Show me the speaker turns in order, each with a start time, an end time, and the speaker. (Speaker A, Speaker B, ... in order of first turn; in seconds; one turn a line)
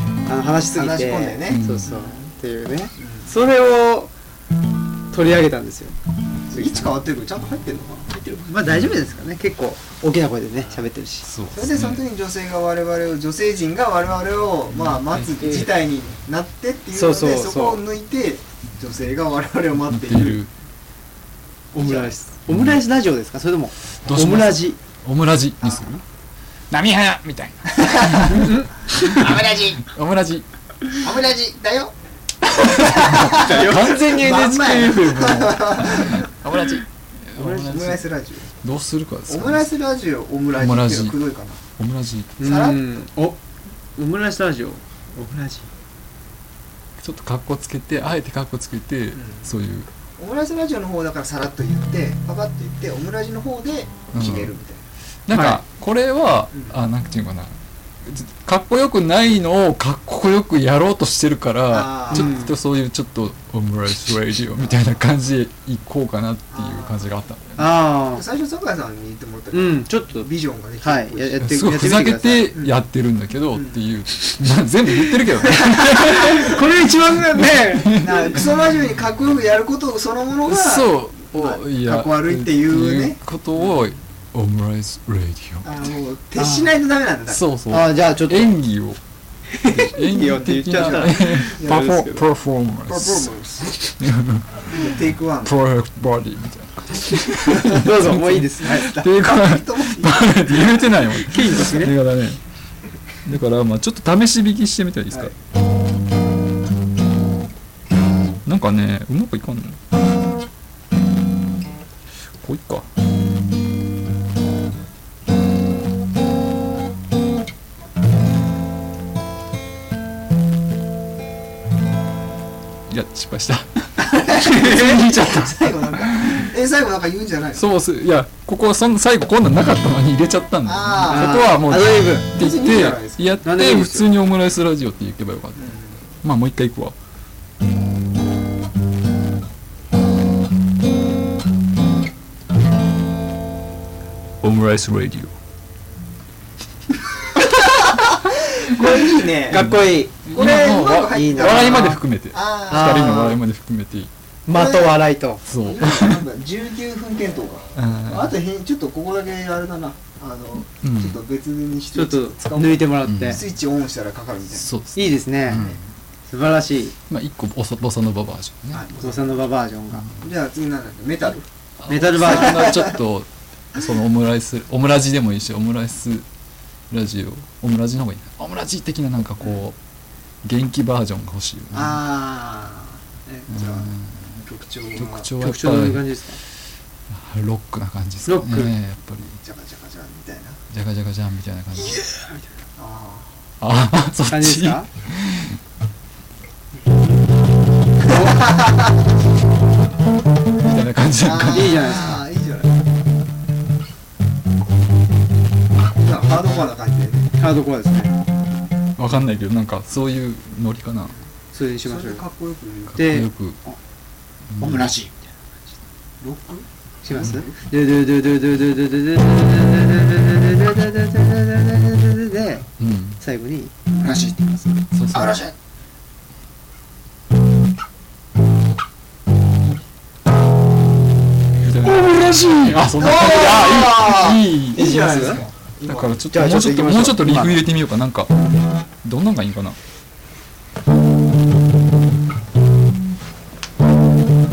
Speaker A: 0.2-4.1
Speaker B: 0.7-2.2
Speaker C: 1.5-1.9
Speaker B: 3.0-3.3
Speaker A: 5.1-5.9
Speaker A: 6.5-7.0
Speaker B: 6.5-8.1
Speaker A: 8.1-11.2
Speaker C: 11.2-12.0
Speaker B: 11.5-20.4
Speaker C: 14.7-15.7
Speaker A: 16.9-17.8
Speaker C: 19.9-20.5
Speaker A: 21.7-24.8
Speaker B: 21.7-22.1
Speaker C: 22.5-22.8
Speaker C: 24.1-25.9
Speaker B: 25.6-26.0
Speaker C: 26.7-30.4
Speaker B: 27.8-28.4
Speaker A: 28.2-29.2
Speaker B: 29.1-29.8
Speaker B: 31.0-31.9
Speaker C: 32.7-38.0
Speaker B: 32.7-36.3
Speaker A: 33.2-34.2
Speaker B: 37.4-38.5
Speaker C: 38.6-39.6
Speaker B: 39.3-41.6
Speaker C: 40.6-41.2
Speaker C: 41.8-42.4
Speaker A: 42.4-43.4
Speaker B: 42.4-42.9
Speaker A: 44.0-45.7
Speaker C: 47.0-49.9
Speaker B: 49.1-49.4
Speaker B: 50.2-54.8
Speaker C: 54.1-54.5
Speaker C: 55.3-57.5
Speaker A: 55.3-55.6
Speaker C: 58.0-67.7
Speaker B: 61.7-62.5
Speaker A: 62.1-62.5
Speaker B: 66.5-67.1
Speaker A: 67.6-68.2
Speaker B: 68.1-71.5
Speaker A: 69.5-70.3
Speaker A: 70.8-72.5
Speaker C: 71.4-76.6
Speaker A: 75.6-78.1
Speaker C: 77.5-78.4
Speaker B: 78.0-83.7
Speaker C: 80.5-85.8
Speaker B: 85.6-87.4
Speaker A: 86.4-86.7
Speaker C: 87.3-89.0
Speaker A: 87.7-88.6
Speaker A: 89.5-92.2
Speaker C: 89.6-93.3
Speaker B: 91.6-91.9
Speaker B: 92.9-93.7
Speaker C: 94.0-102.4
Speaker B: 94.7-95.5
Speaker A: 97.4-98.9
Speaker B: 98.7-100.8
Speaker A: 101.2-101.9
Speaker C: 103.2-105.3
Speaker C: 108.4-109.8
Speaker C: 112.4-112.9
Speaker C: 122.9-126.5
Speaker B: 124.0-127.6
Speaker C: 127.5-136.9
Speaker B: 130.6-131.5
Speaker A: 131.0-132.3
Speaker B: 132.3-133.4
Speaker A: 133.4-134.1
Speaker B: 135.6-136.1
Speaker C: 144.4-145.3
Speaker B: 147.4-149.6
Speaker A: 149.5-152.0
Speaker C: 149.5-154.1
Speaker B: 150.3-153.4
Speaker A: 152.7-153.4
Speaker A: 154.4-155.4
Speaker B: 154.5-155.0
Speaker C: 155.4-156.2
Speaker B: 155.6-164.7
Speaker C: 157.8-158.3
Speaker C: 160.8-161.2
Speaker A: 161.9-163.4
Speaker C: 163.0-163.5
Speaker C: 164.6-165.8
Speaker A: 164.9-165.6
Speaker B: 165.5-165.8
Speaker A: 166.3-166.9
Speaker C: 167.1-168.8
Speaker B: 168.7-169.2
Speaker A: 169.0-170.1
Speaker C: 169.9-170.2
Speaker B: 170.2-171.5
Speaker C: 171.8-176.2
Speaker A: 171.9-172.7
Speaker B: 172.3-172.9
Speaker C: 176.9-179.8
Speaker C: 180.4-182.0
Speaker B: 181.7-185.3
Speaker C: 183.5-184.3
Speaker C: 184.9-186.2
Speaker A: 185.4-186.4
Speaker C: 187.1-189.4
Speaker A: 188.3-188.7
Speaker B: 189.4-190.6
Speaker C: 190.7-192.0
Speaker B: 192.8-193.3
Speaker C: 193.6-195.6
Speaker A: 194.3-194.9
Speaker B: 198.0-198.9
Speaker C: 200.6-201.9
Speaker B: 201.2-202.8
Speaker A: 201.5-202.2
Speaker B: 206.0-207.3
Speaker A: 207.4-208.1
Speaker C: 209.0-211.2
Speaker A: 211.5-212.2
Speaker B: 211.8-213.0
Speaker C: 212.9-213.6
Speaker A: 212.9-213.8
Speaker C: 214.5-214.9
Speaker A: 214.6-215.3
Speaker B: 216.2-217.5
Speaker A: 217.0-222.7
Speaker C: 217.1-217.4
Speaker C: 222.8-223.2
Speaker A: 223.2-224.7
Speaker C: 224.9-225.4
Speaker B: 225.1-225.5
Speaker C: 231.6-238.3
Speaker A: 231.9-232.6
Speaker B: 233.0-236.2
Speaker A: 234.5-235.4
Speaker A: 236.3-237.6
Speaker C: 239.0-239.8